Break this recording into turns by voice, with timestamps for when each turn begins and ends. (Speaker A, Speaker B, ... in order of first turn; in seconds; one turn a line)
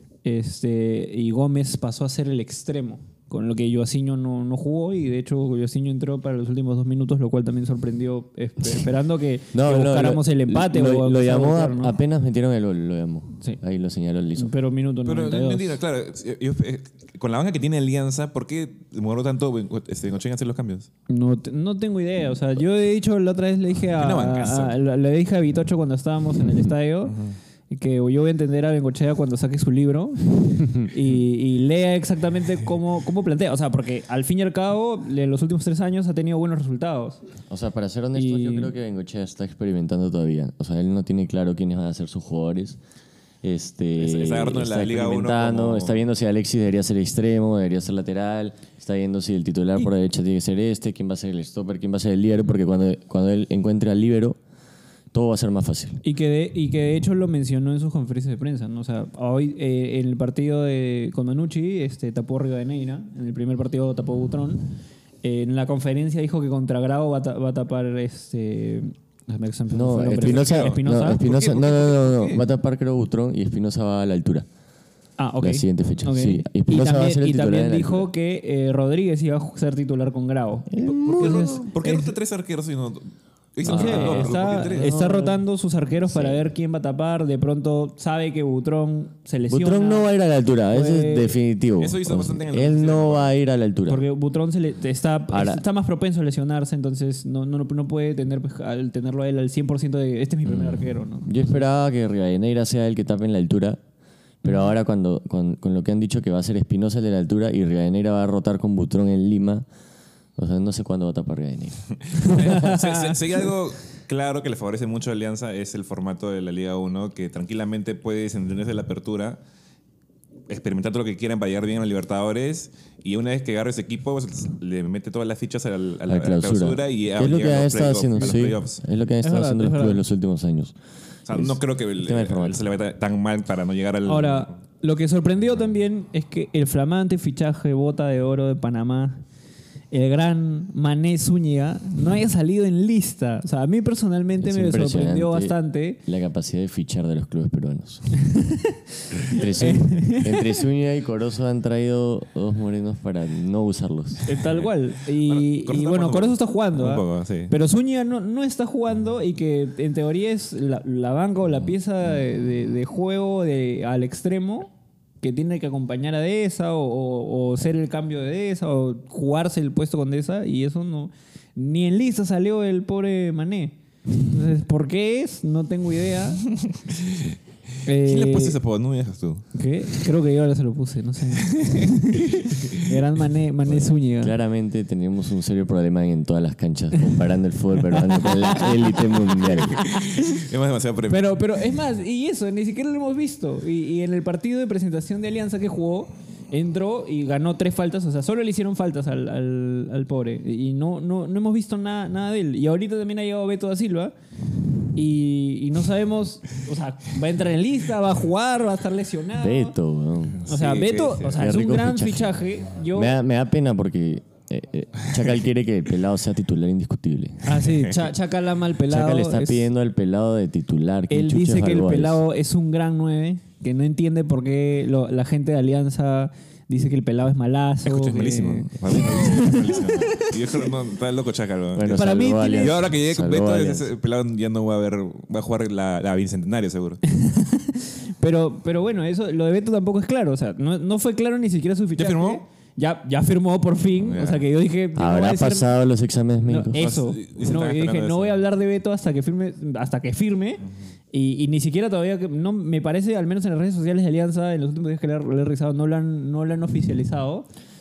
Speaker A: 0.2-12.0
Speaker B: 9.5-14.5
Speaker A: 14.4-15.8
Speaker C: 15.1-20.9
Speaker A: 21.1-27.2
Speaker C: 24.0-24.8
Speaker C: 27.1-27.4
Speaker A: 27.7-37.2
Speaker B: 37.5-42.8
Speaker A: 38.1-38.7
Speaker B: 43.4-54.4
Speaker C: 44.0-46.0
Speaker B: 55.1-56.0
Speaker A: 56.0-64.7
Speaker A: 65.2-71.2
Speaker B: 69.7-74.5
Speaker C: 70.2-72.4
Speaker A: 75.2-82.1
Speaker B: 75.4-78.1
Speaker B: 80.7-81.6
Speaker C: 80.8-84.9
Speaker A: 83.6-90.1
Speaker B: 83.7-85.4
Speaker B: 86.1-86.4
Speaker B: 89.5-94.0
Speaker A: 90.7-91.4
Speaker C: 91.8-93.3
Speaker A: 93.9-101.3
Speaker B: 95.3-95.6
Speaker B: 100.5-103.8
Speaker B: 104.4-109.7
Speaker A: 104.5-104.7
Speaker B: 110.4-112.6
Speaker C: 112.1-119.4
Speaker A: 112.4-113.2
Speaker C: 120.5-128.8
Speaker B: 126.1-130.7
Speaker A: 129.2-130.0
Speaker C: 131.3-134.6
Speaker B: 131.3-132.7
Speaker A: 134.1-139.2
Speaker A: 139.9-146.0
Speaker B: 144.4-148.3
Speaker B: 149.3-154.2
Speaker A: 149.4-150.5
Speaker A: 154.3-164.7
Speaker C: 155.2-157.5
Speaker A: 165.2-176.4
Speaker C: 176.5-177.4
Speaker A: 177.8-178.6
Speaker C: 178.0-179.6
Speaker A: 179.5-184.3
Speaker C: 181.4-182.8
Speaker B: 183.7-189.8
Speaker A: 188.2-190.1
Speaker C: 190.2-191.4
Speaker A: 191.1-204.1
Speaker A: 204.9-209.8
Speaker B: 209.4-210.5
Speaker A: 210.5-213.1
Speaker C: 210.5-211.4
Speaker B: 211.3-212.4
Speaker B: 212.9-217.6
Speaker A: 217.4-219.7
Speaker B: 218.9-222.2
Speaker A: 221.1-230.6
Speaker C: 227.8-237.0
Speaker B: 231.8-233.9
Speaker A: 231.9-232.8
Speaker A: 237.1-245.7
Speaker C: 242.0-242.4
Speaker C: 244.1-244.4
Speaker B: 245.0-246.9
Speaker A: 246.4-257.5
Speaker C: 246.7-248.4